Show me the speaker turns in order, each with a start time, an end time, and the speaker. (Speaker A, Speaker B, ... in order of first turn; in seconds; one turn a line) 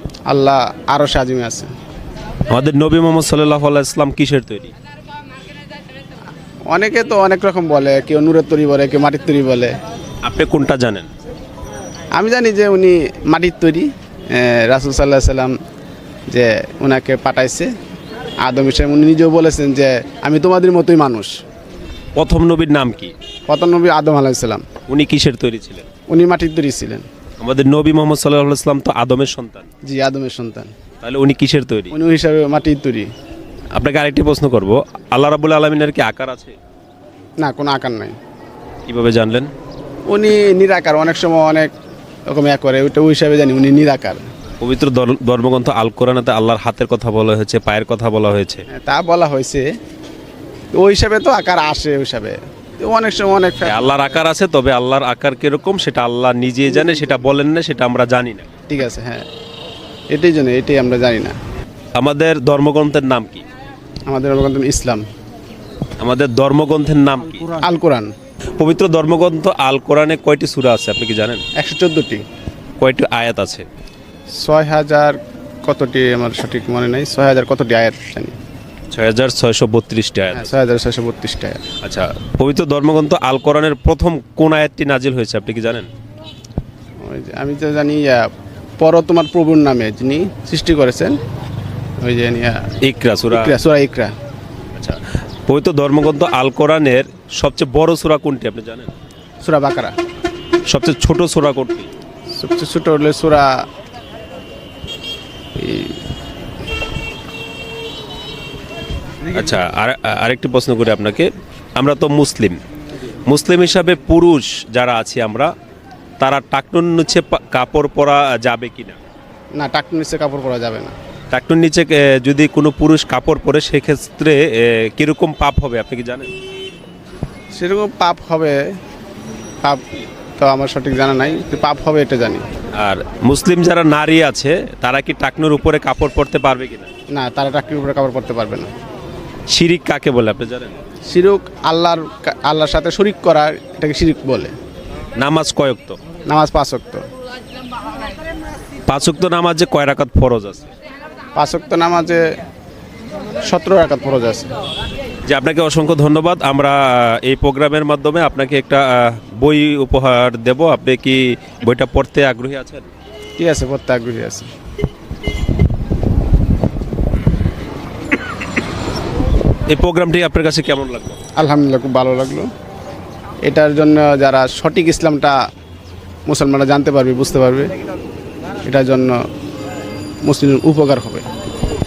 Speaker A: 0.3-1.7
Speaker B: 2.5-4.7
Speaker A: 6.7-9.8
Speaker B: 10.2-11.1
Speaker A: 12.2-15.5
Speaker A: 16.3-17.7
Speaker A: 18.4-21.4
Speaker B: 22.1-23.1
Speaker A: 23.5-24.6
Speaker B: 24.9-25.9
Speaker A: 26.1-27.1
Speaker B: 27.4-29.7
Speaker A: 29.9-30.7
Speaker B: 31.0-31.9
Speaker A: 31.9-33.1
Speaker B: 33.7-36.5
Speaker A: 37.4-38.1
Speaker B: 38.9-39.5
Speaker A: 40.1-41.7
Speaker A: 42.3-44.2
Speaker B: 44.6-48.6
Speaker A: 48.7-49.6
Speaker A: 50.8-54.0
Speaker B: 53.6-58.5
Speaker A: 58.7-59.2
Speaker A: 60.1-61.3
Speaker B: 61.9-63.4
Speaker A: 64.1-65.0
Speaker B: 66.0-67.6
Speaker A: 67.5-68.1
Speaker B: 68.6-71.4
Speaker A: 71.5-72.2
Speaker B: 72.8-73.7
Speaker A: 74.4-78.4
Speaker B: 78.9-80.5
Speaker A: 80.3-81.6
Speaker B: 81.8-85.9
Speaker A: 87.0-88.3
Speaker A: 88.8-91.2
Speaker A: 92.0-92.7
Speaker B: 92.8-93.6
Speaker A: 93.3-94.1
Speaker B: 94.7-98.9
Speaker A: 99.4-99.9
Speaker B: 100.7-101.9
Speaker A: 102.3-103.6
Speaker A: 105.5-106.0
Speaker B: 109.3-112.6
Speaker B: 113.3-115.5
Speaker B: 116.2-119.0
Speaker A: 119.5-120.9
Speaker B: 121.3-126.3
Speaker A: 127.5-128.6
Speaker A: 129.6-132.4
Speaker B: 132.8-136.9
Speaker A: 137.1-138.7
Speaker B: 139.5-140.7
Speaker A: 141.1-144.5
Speaker B: 145.2-146.0
Speaker A: 146.3-147.0
Speaker B: 148.9-150.7
Speaker A: 151.3-152.2
Speaker A: 153.4-154.5
Speaker B: 155.2-162.9
Speaker A: 163.4-164.5
Speaker B: 169.7-171.2
Speaker A: 171.4-172.5
Speaker A: 173.4-175.3
Speaker A: 176.3-177.7
Speaker A: 178.6-179.2
Speaker A: 180.2-181.2